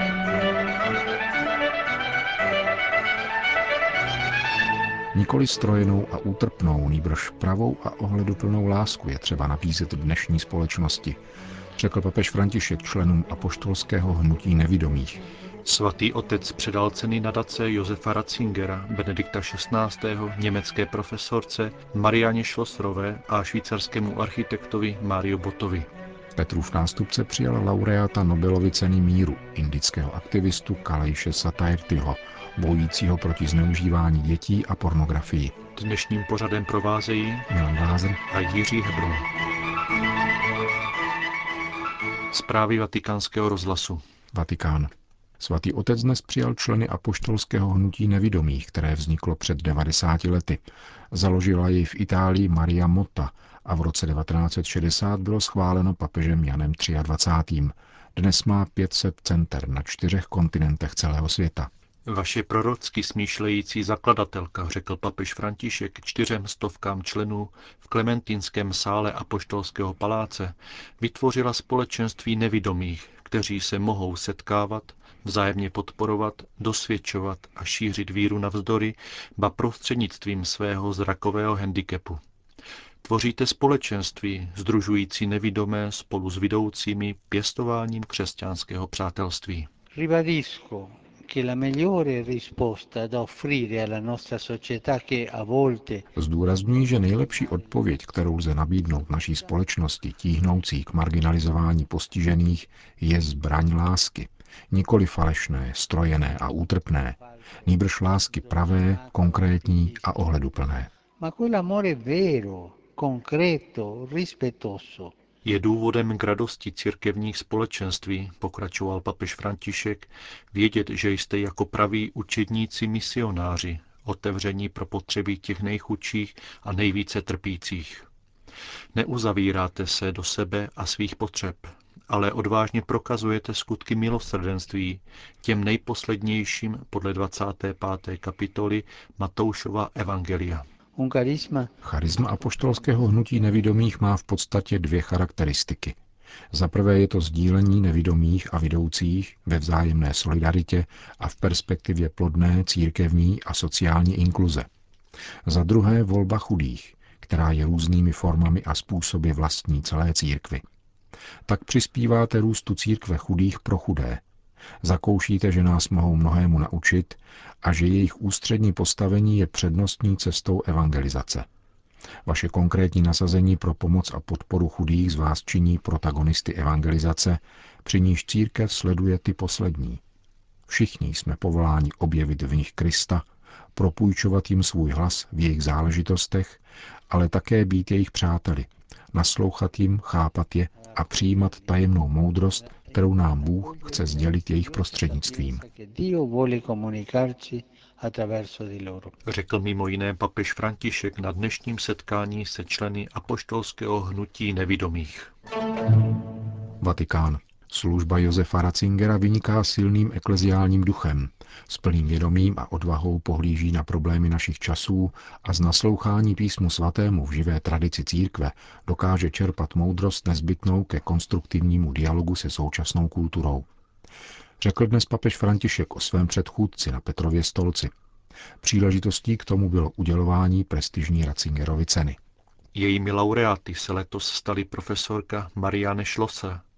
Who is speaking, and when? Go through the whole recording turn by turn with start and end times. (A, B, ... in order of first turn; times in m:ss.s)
0:05.1-0:11.2 A
0:11.8-0:15.2 A
0:15.6-0:25.9 B
0:26.4-0:35.6 A
0:35.8-0:37.5 B
0:37.5-0:38.2 A
0:38.3-0:39.3 B
0:42.3-0:44.0 B
0:44.3-1:01.7 A
1:02.1-1:22.2 B
1:23.0-1:29.7 B
1:29.9-1:38.0 C
1:36.2-1:50.9 A
1:39.2-1:39.5 C
1:47.2-1:50.4 C
1:51.2-1:55.2 C
1:55.4-2:08.1 B
2:09.0-2:20.7 B
2:21.0-2:21.7 C
2:21.8-2:26.0 A
2:26.5-2:34.7 A
2:35.4-2:40.6 A
2:41.5-2:44.2 A
2:44.8-2:51.5 A
2:52.3-3:00.0 A
3:00.7-3:03.2 A
3:03.8-3:15.6 A
3:10.8-3:11.9 C
3:12.6-3:19.2 C
3:19.3-3:25.3 B
3:26.8-3:43.7 A
3:44.6-3:47.9 A
3:48.6-3:52.2 A
3:52.7-3:56.6 B